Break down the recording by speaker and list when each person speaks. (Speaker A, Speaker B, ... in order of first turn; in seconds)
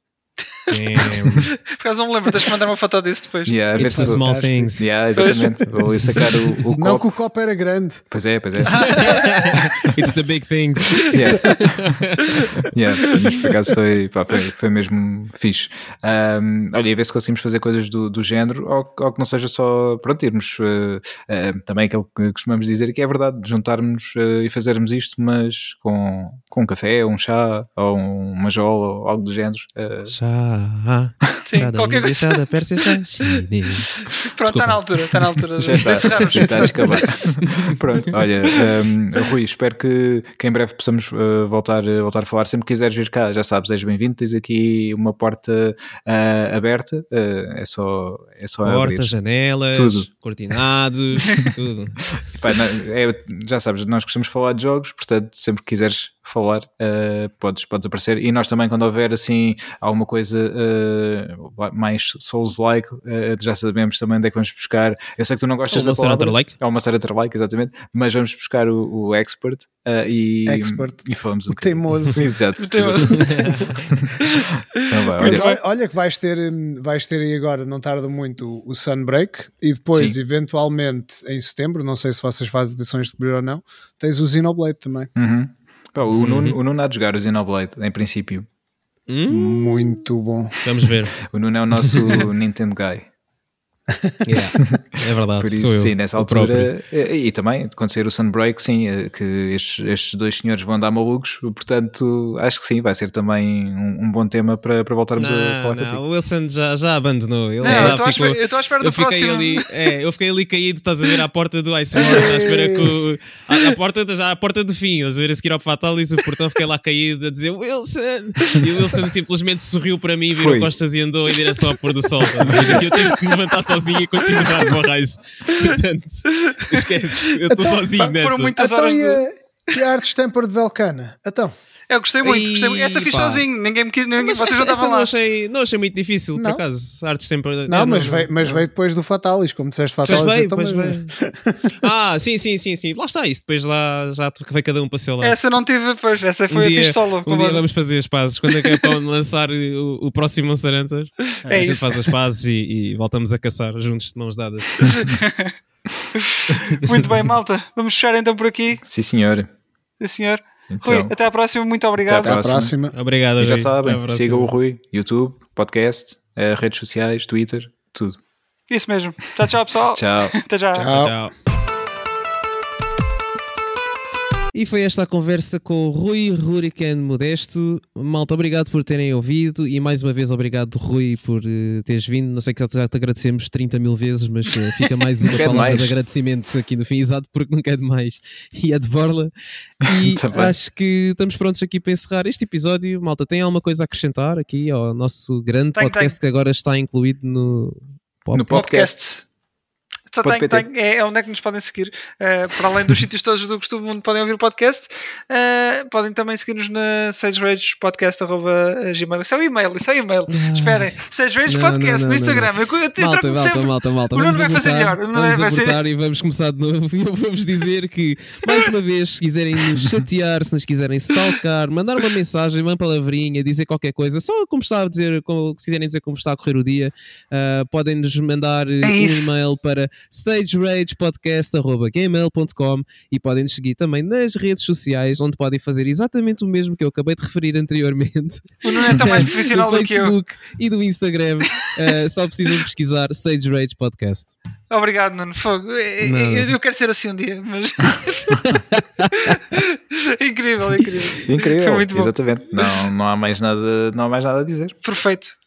Speaker A: 0.5-3.6, 5.2-5.7, 8.7-9.3, 31.4-33.4, 34.0-37.2, 72.6-73.6, 75.2-75.6, 107.6-109.7, 122.6-123.2, 124.4-124.7, 126.4-129.2, 131.9-135.1, 145.2-147.6, 148.5-148.9, 151.5-152.1, 154.8-155.6, 156.2-158.8, 160.0-162.4, 168.7-171.0, 195.8-196.2, 198.5-199.2, 200.1-215.8, 228.8-229.3, 238.6-240.2, 244.7-248.5, 249.2-252.8, 254.8-255.4
Speaker B: 0.7-1.5, 3.8-4.9, 8.9-12.7, 30.1-36.9, 37.4-37.8, 48.6-52.0, 65.7-66.5, 73.3-73.6, 86.1-86.6, 89.1-90.0, 90.6-91.2, 91.8-92.0, 94.2-96.7, 105.2-128.5, 132.2-133.4, 134.1-138.6, 140.1-141.1, 141.8-145.4, 146.5-154.9, 162.9-164.5, 170.8-171.3, 174.5-189.3, 189.8-198.7, 210.3-210.9, 211.5-244.3, 246.0-246.5, 248.4-249.4
Speaker C: 3.5-7.1, 8.1-9.9, 11.1-12.0, 12.7-30.2, 35.6-49.1, 49.7-50.1, 52.1-75.5, 79.9-80.2, 85.2-88.5, 91.3-93.1, 95.4-106.0, 107.6-108.0, 120.3-120.7, 158.8-159.5, 160.7-161.1, 162.1-162.8, 163.4-168.2, 169.9-170.4, 185.3-185.9, 189.9-190.6, 198.3-199.1, 200.2-200.7, 251.2-254.8
Speaker D: 3.8-4.8, 6.8-8.1, 70.5-73.9, 75.2-85.1, 89.3-90.6, 112.0-112.9, 128.6-131.5, 136.4-136.6, 137.7-141.7, 151.4-151.9, 162.2-162.9, 170.8-171.2